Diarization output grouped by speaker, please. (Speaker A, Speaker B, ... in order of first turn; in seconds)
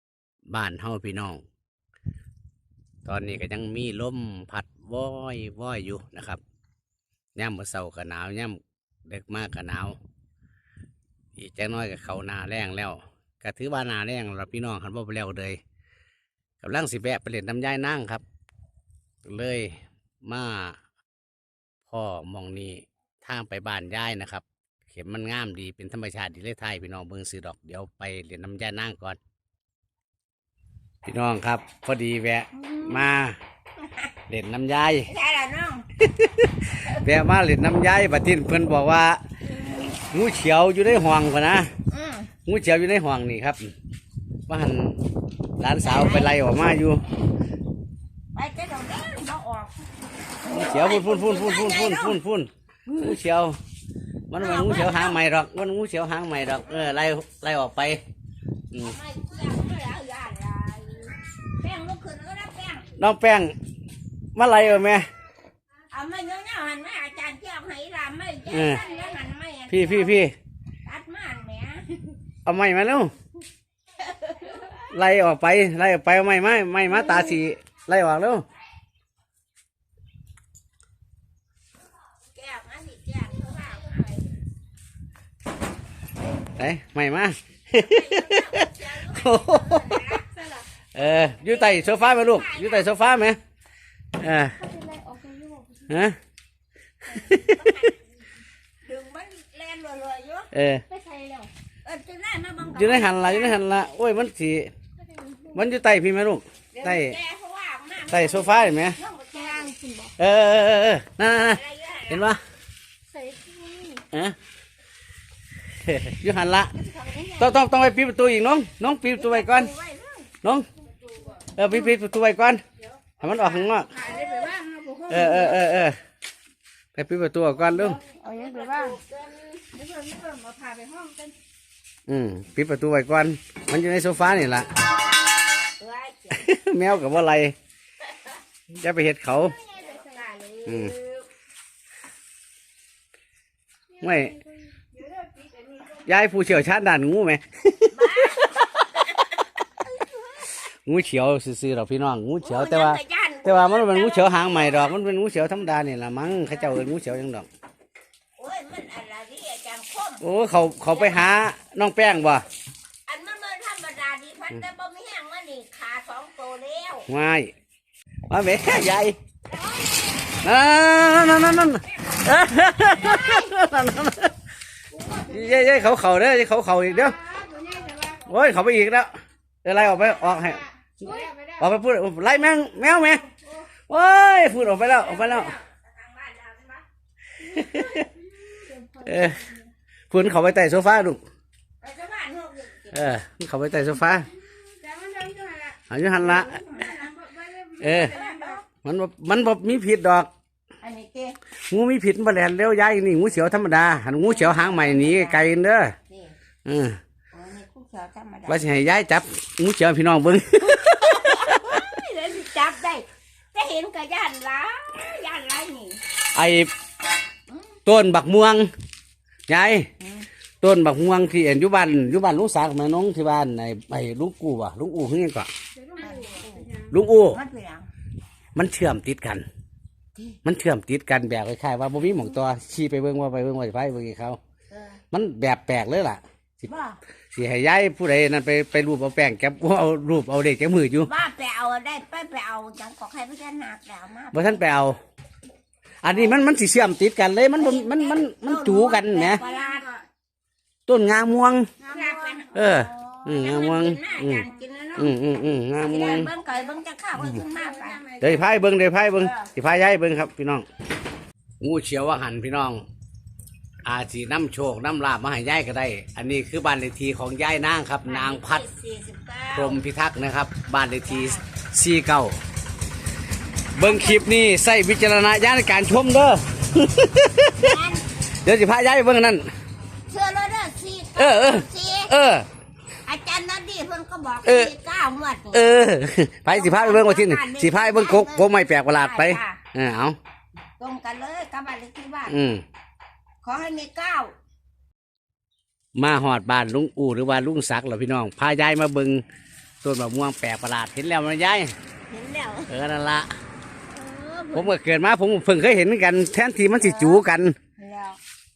Speaker A: 0.5-1.4, 3.0-6.4, 7.3-10.0, 11.4-15.6, 16.6-18.2, 19.2-20.8, 21.9-29.2, 31.1-33.4, 34.3-35.1, 36.0-39.2, 39.9-41.7, 42.5-43.7, 44.5-45.1, 45.6-47.0, 50.5-53.6, 54.3-58.0, 63.0-63.6, 64.3-65.1, 68.5-68.8, 69.7-70.3, 72.5-73.1, 74.9-78.5, 86.6-90.2, 91.0-93.4, 94.2-94.6, 95.9-96.2, 97.1-97.6, 100.5-100.8, 102.7-104.7, 105.5-107.2, 108.1-109.0, 110.2-112.4, 115.8-116.7, 117.4-119.7, 121.5-122.6, 123.2-124.0, 125.1-126.0, 127.0-128.0, 132.1-134.7, 136.3-137.6, 138.7-139.6, 140.7-140.9, 144.0-144.4, 146.0-148.7, 150.7-157.5, 160.2-162.4, 167.1-167.5, 168.3-169.2, 170.4-174.3, 175.3-177.2, 178.2-183.3, 183.9-185.6, 187.4-188.1, 189.0-189.4, 190.1-191.2, 192.9-194.3, 195.9-196.6, 197.8-198.2, 198.8-200.3, 201.7-205.9, 206.7-207.0, 208.5-211.9, 216.3-216.7, 217.9-218.7, 219.5-219.9, 220.6-225.5, 226.9-227.4, 228.6-229.5, 230.4-234.4, 235.1-236.2, 237.3-241.1, 244.3-245.0, 246.0-249.4, 250.9-251.7, 252.5-256.3, 258.2-260.7, 261.6-262.8, 263.8-268.6, 269.6-272.4, 273.8-277.8, 278.4-279.5, 281.2-282.5, 284.4-284.7, 285.5-290.2, 292.3-292.6, 295.9-299.2, 299.8-301.7, 302.7-303.3, 304.5-307.6
Speaker B: 32.5-33.1, 35.1-35.9, 41.9-42.3, 45.8-46.5, 48.3-49.8, 50.4-52.2, 54.4-55.2, 58.8-62.9, 65.9-70.2, 70.8-72.2, 74.0-74.8, 82.3-84.3, 87.7-90.5, 91.3-93.0, 97.2-98.0, 98.8-100.5, 101.8-103.6, 106.7-109.8, 111.5-112.3, 116.7-117.6, 119.2-120.3, 123.9-124.5, 128.1-129.6, 135.8-136.5, 139.4-141.2, 147.9-149.0, 149.8-150.5, 152.4-154.9, 158.4-160.2, 160.9-161.3, 163.1-167.1, 172.8-173.5, 184.9-186.8, 191.8-193.2, 196.3-197.1, 197.9-198.7, 200.8-201.4, 204.1-205.5, 206.1-206.4, 207.3-208.7, 210.8-216.0, 217.5-217.8, 220.0-220.3, 226.0-226.7, 227.3-227.9, 234.7-235.0, 236.6-237.0, 241.0-244.6, 247.6-249.9, 251.9-255.1, 255.8-258.0, 268.1-269.8, 271.1-271.4, 273.8-274.3, 277.6-278.1, 280.1-282.1, 283.1-285.8, 286.5-289.6, 290.8-292.4, 293.4-294.3, 302.1-302.7, 303.9-304.8, 306.8-307.2, 307.8-308.2
Speaker C: 90.4-90.6, 94.6-95.9, 100.9-101.5, 105.2-105.5, 109.5-110.1, 113.1-114.0, 123.3-125.6, 127.7-129.0, 129.7-131.3, 144.1-144.3, 145.0-145.8, 174.9-175.8, 177.0-178.3, 179.9-181.6, 187.7-189.7, 194.8-198.6, 225.8-226.9, 249.4-250.0, 251.8-253.2, 257.5-258.5